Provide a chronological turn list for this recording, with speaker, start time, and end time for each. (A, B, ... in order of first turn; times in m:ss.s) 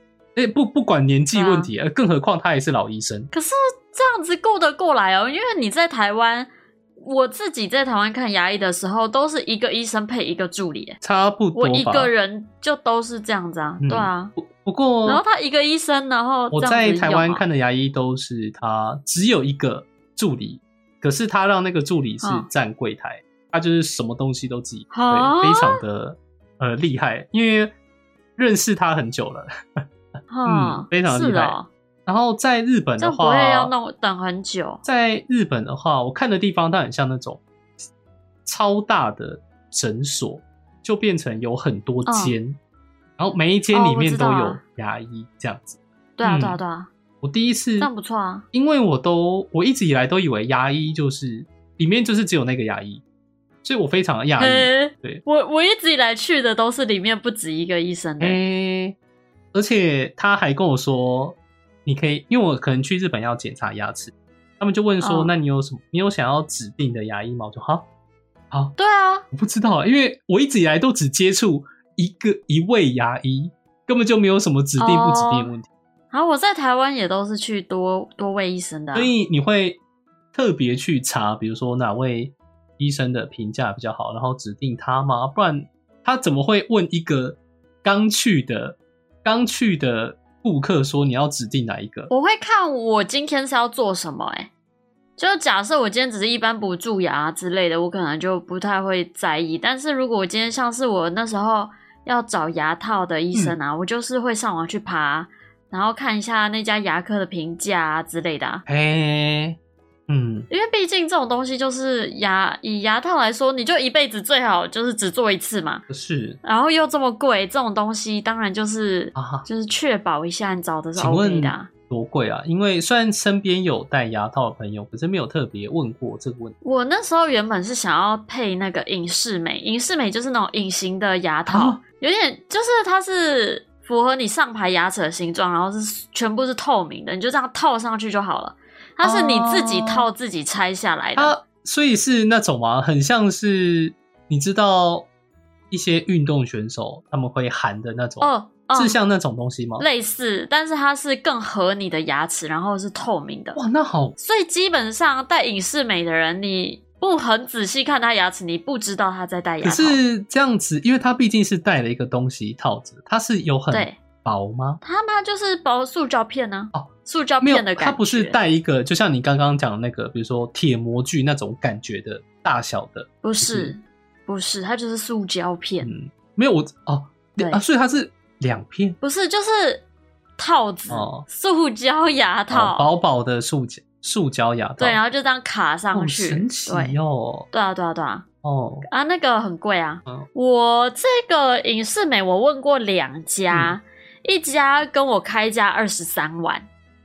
0:00.4-0:03.3 A
0:01.3-0:01.7 B
0:03.3-0:11.0 B
0:11.0-0:12.1 A
0:11.5-0:14.3 B
0:13.8-0:15.2 A
0:15.0-0:17.4 B
0:16.5-0:27.7 A
0:22.2-0:22.5 B
0:24.9-0:25.8 B
0:28.4-0:29.8 A
0:30.3-0:31.7 B
0:30.4-0:33.7 A
0:33.0-0:34.8 B
0:34.8-0:37.4 A
0:38.4-0:42.6 A
0:42.0-0:42.4 B
0:43.2-0:46.6 A
0:43.7-0:44.6 B
0:46.2-0:46.9 B
0:47.2-0:47.9 A
0:47.8-0:48.4 B
0:48.5-0:53.0 A
0:53.6-0:55.2 A
0:54.4-0:58.4 B
0:58.2-0:59.0 A
0:59.5-1:07.8 A
1:05.0-1:05.3 B
1:08.8-1:09.2 B
1:09.3-1:15.7 A
1:14.8-1:15.5 B
1:16.1-1:19.1 B
1:18.9-1:19.8 A
1:20.3-1:32.1 A
1:32.1-1:34.5 B
1:35.2-1:48.6 B
1:48.7-1:49.6 A
1:50.1-1:50.5 A
1:50.5-1:55.8 B
1:55.9-1:56.4 A
1:56.4-2:01.7 B
1:59.1-1:59.5 A
2:01.0-2:06.5 A
2:06.6-2:21.3 B
2:11.4-2:11.8 A
2:19.0-2:20.1 A
2:21.2-2:25.1 A
2:25.7-2:29.8 A
2:28.2-2:29.0 B
2:29.8-2:33.6 B
2:33.5-2:34.2 A
2:34.2-2:40.0 B
2:39.6-2:44.8 A
2:43.7-2:44.0 B
2:44.8-2:48.4 B
2:47.4-2:53.7 A
2:53.2-2:55.9 B
2:55.8-2:59.0 A
2:59.0-2:59.8 B
3:00.4-3:02.9 B
3:00.9-3:01.2 A
3:02.5-3:05.0 A
3:04.8-3:07.0 B
3:05.9-3:07.5 A
3:07.5-3:08.2 B
3:08.4-3:08.8 A
3:08.9-3:16.7 B
3:13.5-3:13.8 A